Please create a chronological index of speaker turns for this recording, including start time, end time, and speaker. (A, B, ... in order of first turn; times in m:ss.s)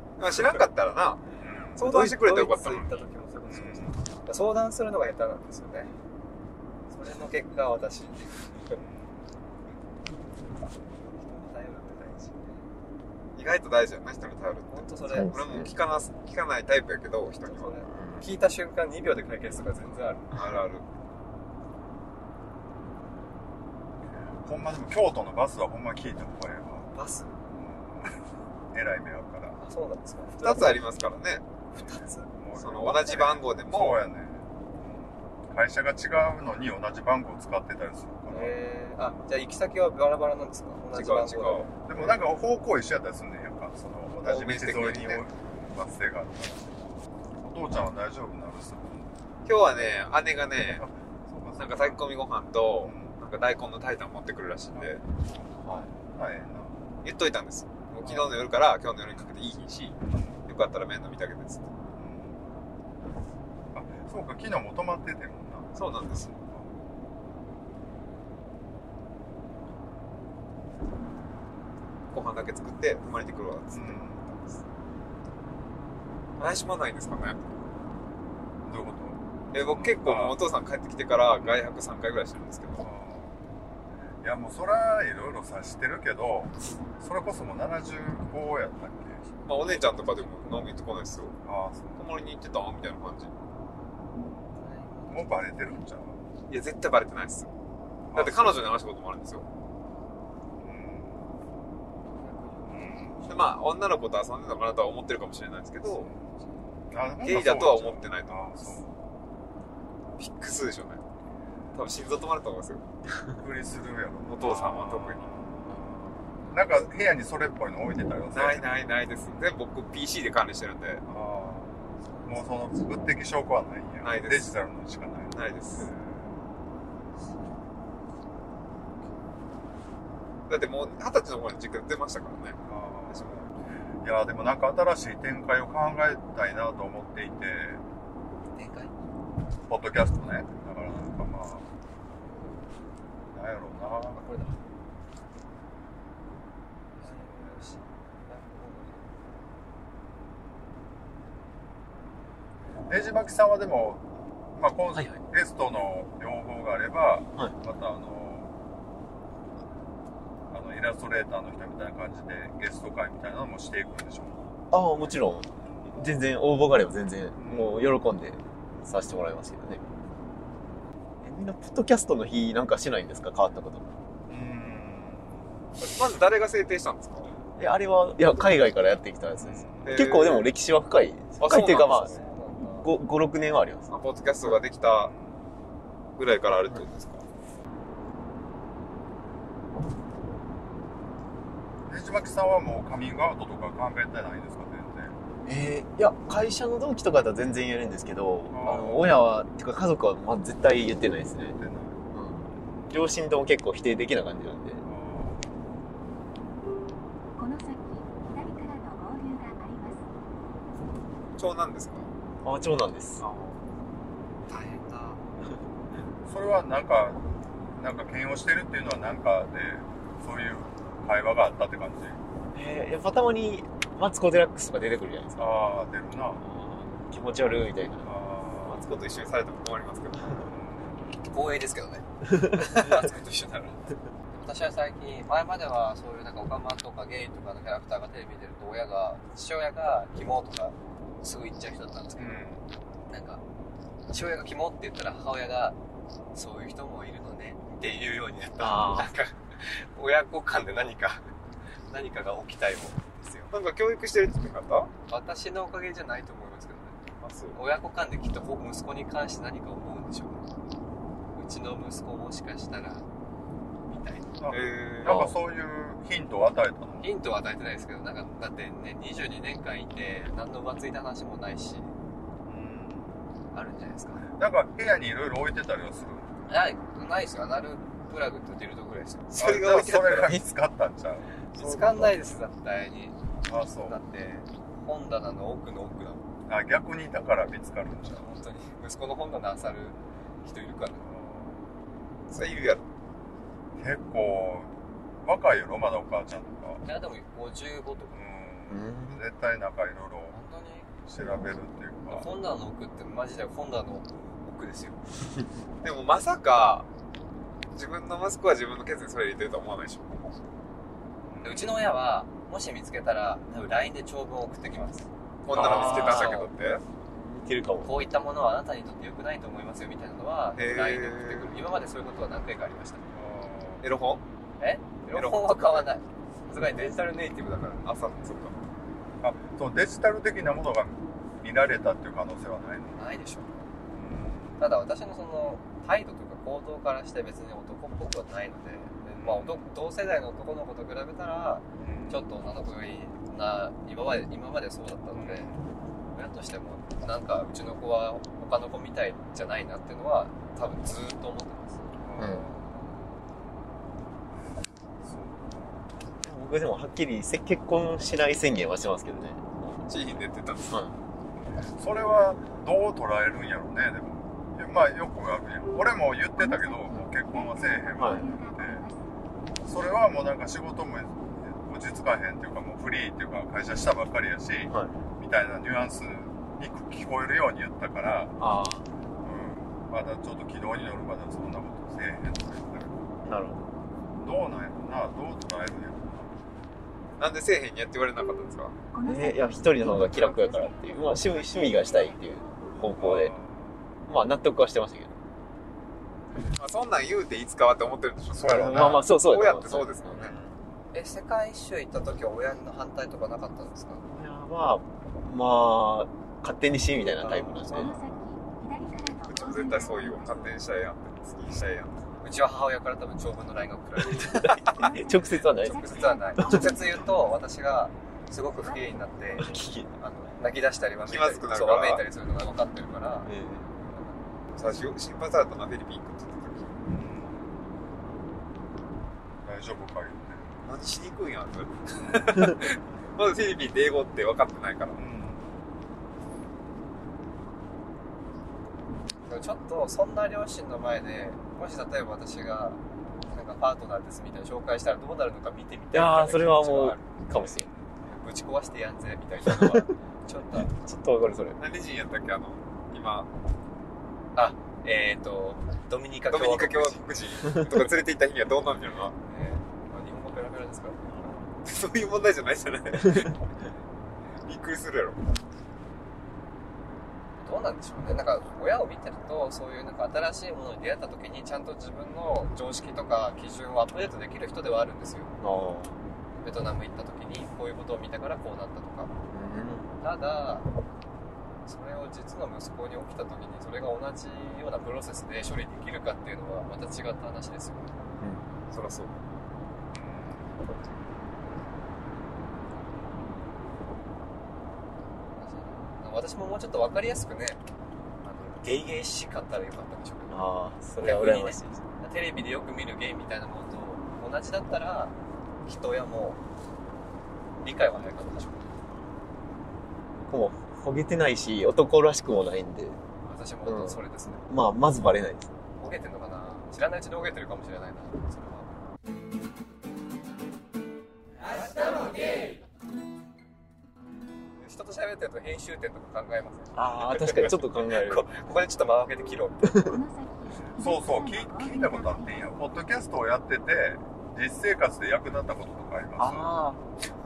0:00.2-0:02.9 A
0:01.4-0:01.8 B
0:01.8-0:05.9 C
0:03.5-0:04.0 B
0:06.9-0:08.8 C
0:08.8-0:09.2 B
0:11.1-0:12.6 C
0:13.4-0:17.9 A
0:14.7-0:15.4 C
0:15.1-0:15.7 D
0:17.4-0:20.4 C
0:17.8-0:18.3 D
0:20.3-0:20.8 A
0:24.4-0:26.9 B
0:26.9-0:27.4 C
0:27.5-0:28.1 B
0:28.7-0:29.6 B
0:29.6-0:30.8 C
0:30.4-0:31.4 A
0:31.7-0:32.3 C
0:32.3-0:38.6 B
0:32.6-0:34.0 A
0:38.3-0:42.1 C
0:40.9-0:41.7 A
0:41.8-0:46.8 B
0:44.2-0:45.2 A
0:47.4-0:49.1 B
0:49.4-0:50.8 A
0:50.5-0:52.0 B
0:51.6-0:55.0 A
0:52.8-0:53.2 B
0:54.8-0:56.8 B
0:55.6-0:55.9 D
0:57.0-1:01.7 A
0:58.0-0:58.4 B
1:00.0-1:00.4 B
1:02.0-1:02.4 B
1:03.7-1:06.7 B
1:05.7-1:06.3 A
1:12.1-1:14.6 A
1:13.7-1:14.2 B
1:16.4-1:17.6 A
1:18.6-1:20.4 B
1:19.5-1:22.9 A
1:21.4-1:21.7 B
1:22.8-1:23.4 B
1:24.2-1:29.2 B
1:29.4-1:31.4 A
1:31.4-1:32.0 B
1:32.0-1:33.3 A
1:34.5-1:35.7 C
1:35.1-1:36.2 B
1:36.5-1:37.5 A
1:38.1-1:38.8 B
1:38.1-1:39.4 A
1:40.6-1:41.2 B
1:42.1-1:43.4 C
1:42.7-1:43.3 B
1:43.3-1:46.1 A
1:45.9-1:46.3 B
1:46.9-1:48.9 B
1:47.2-1:48.8 A
1:50.2-1:51.0 A
1:51.7-1:52.8 A
1:53.3-1:58.7 B
1:54.2-1:55.2 A
1:58.3-2:01.0 A
2:01.0-2:06.4 B
2:02.0-2:02.5 C
2:04.0-2:04.5 A
2:05.3-2:05.9 A
2:10.5-2:13.5 A
2:12.6-2:13.4 B
2:14.0-2:17.8 B
2:18.5-2:18.9 C
2:19.7-2:21.7 B
2:23.3-2:24.2 B
2:24.1-2:24.5 C
2:27.0-2:29.1 C
2:32.9-2:38.5 B
2:34.9-2:35.2 D
2:40.5-2:44.5 B
2:44.7-2:49.8 D
2:47.4-2:47.9 B
2:51.2-2:53.9 D
2:54.3-2:55.4 B
2:55.8-2:57.3 A
2:57.6-3:03.9 D
2:59.4-3:00.1 B
2:59.8-3:00.5 A
3:01.4-3:02.2 A
3:01.4-3:02.9 C
3:03.9-3:05.1 A
3:04.9-3:05.4 B
3:06.2-3:07.2 A
3:11.9-3:15.2 B
3:15.4-3:21.6 D
3:18.5-3:19.3 B
3:21.4-3:22.0 B
3:22.1-3:24.8 D
3:24.8-3:25.5 B
3:27.4-3:30.0 E
3:31.4-3:32.1 A
3:32.4-3:33.2 D
3:33.2-3:33.6 A
3:34.5-3:35.2 C
3:36.2-3:37.2 B
3:37.8-3:42.2 B
3:42.5-3:45.6 D
3:45.4-3:46.4 B
3:46.4-3:48.1 D
3:48.0-3:48.8 B
3:48.6-3:50.5 A
3:50.4-3:51.1 B
3:51.2-3:53.8 C
3:52.3-3:52.8 D
3:54.3-4:02.4 C
4:02.2-4:02.6 B
4:03.1-4:03.4 C
4:04.1-4:05.8 C
4:06.3-4:11.2 C
4:08.6-4:09.1 D
4:11.9-4:13.5 C
4:13.5-4:14.9 A
4:15.1-4:17.0 C
4:17.2-4:17.6 A
4:17.5-4:20.4 C
4:21.4-4:23.0 C
4:23.9-4:24.3 C
4:24.4-4:27.1 B
4:24.5-4:25.3 A
4:25.0-4:25.3 D
4:27.0-4:31.9 C
4:32.4-4:33.2 B
4:33.5-4:34.2 C
4:34.3-4:36.3 B
4:36.5-4:39.4 C
4:39.3-4:40.4 A
4:39.4-4:42.2 B
4:41.5-4:43.2 C
4:43.4-4:44.0 B
4:43.8-4:46.2 C
4:46.5-4:48.3 B
4:48.1-4:51.0 C
4:51.0-4:51.6 B
4:52.3-4:52.8 A
4:53.8-4:54.7 B
4:55.2-4:56.8 B
4:56.8-4:58.2 C
4:58.1-5:00.4 B
4:58.7-4:59.2 D
5:00.3-5:00.9 C
5:01.0-5:02.3 B
5:02.1-5:05.0 C
5:05.8-5:06.9 A
5:07.7-5:10.1 A
5:11.3-5:11.9 B
5:11.4-5:16.5 C
5:15.4-5:16.8 A
5:15.5-5:16.3 B
5:15.6-5:15.9 D
5:17.2-5:18.0 D
5:17.8-5:23.0 C
5:20.6-5:21.5 A
5:23.1-5:23.8 B
5:23.8-5:24.2 A
5:24.6-5:27.8 C
5:25.1-5:25.9 A
5:27.7-5:28.6 A
5:29.2-5:33.1 B
5:33.0-5:33.7 C
5:33.9-5:34.6 B
5:34.6-5:45.5 C
5:39.2-5:39.7 B
5:41.8-5:42.2 B
5:45.1-5:45.7 B
5:46.1-5:51.9 C
5:52.0-5:52.8 B
5:52.2-5:52.5 D
5:55.0-5:55.8 B
5:56.2-5:59.8 D
5:59.8-6:00.8 A
6:00.7-6:00.9 D
6:01.6-6:08.8 B
6:06.4-6:09.1 E
6:08.0-6:08.3 D
6:09.6-6:18.4 B
6:14.7-6:14.9 D
6:18.4-6:18.8 D
6:19.2-6:23.0 B
6:23.2-6:23.7 D
6:24.2-6:26.3 B
6:27.2-6:28.8 A
6:28.9-6:32.8 E
6:29.0-6:33.3 D
6:33.0-6:33.7 B
6:34.1-6:35.1 D
6:36.5-6:40.3 A
6:38.3-6:39.1 B
6:38.4-6:40.4 D
6:40.9-6:44.0 C
6:44.1-6:48.0 D
6:47.1-6:48.0 C
6:47.7-6:50.5 E
6:49.3-6:52.1 A
6:52.2-6:54.6 C
6:54.7-6:57.1 E
6:54.7-6:56.9 D
6:55.6-7:04.5 C
6:58.6-6:59.0 E
6:59.3-6:59.9 D
7:01.1-7:02.0 A
7:03.2-7:03.7 D
7:04.5-7:06.7 A
7:06.8-7:07.5 B
7:09.4-7:10.5 B
7:10.6-7:15.0 A
7:15.0-7:15.5 B
7:19.3-7:27.1 C
7:25.9-7:27.7 D
7:28.0-7:30.7 C
7:29.4-7:29.9 D
7:30.5-7:31.6 D
7:31.6-7:33.3 A
7:34.3-7:37.1 C
7:36.3-7:39.1 A
7:39.2-7:41.1 C
7:41.6-7:43.4 A
7:44.4-7:45.2 A
7:47.4-7:55.3 C
7:55.4-7:56.0 D
7:56.4-7:59.1 C
7:59.3-7:59.9 D
8:00.0-8:00.6 C
8:01.6-8:07.9 C
8:08.7-8:09.1 A
8:09.9-8:10.5 B
8:15.4-8:17.6 C
8:18.2-8:20.4 C
8:20.3-8:21.8 D
8:21.0-8:26.4 C
8:27.6-8:28.7 C
8:30.2-8:33.0 D
8:33.2-8:34.4 C
8:33.6-8:35.6 D
8:35.8-8:38.7 C
8:44.6-8:49.7 C
8:46.7-8:48.3 D
8:49.6-8:50.0 D
8:49.8-8:52.5 E
8:50.8-8:56.5 B
8:56.2-8:56.8 D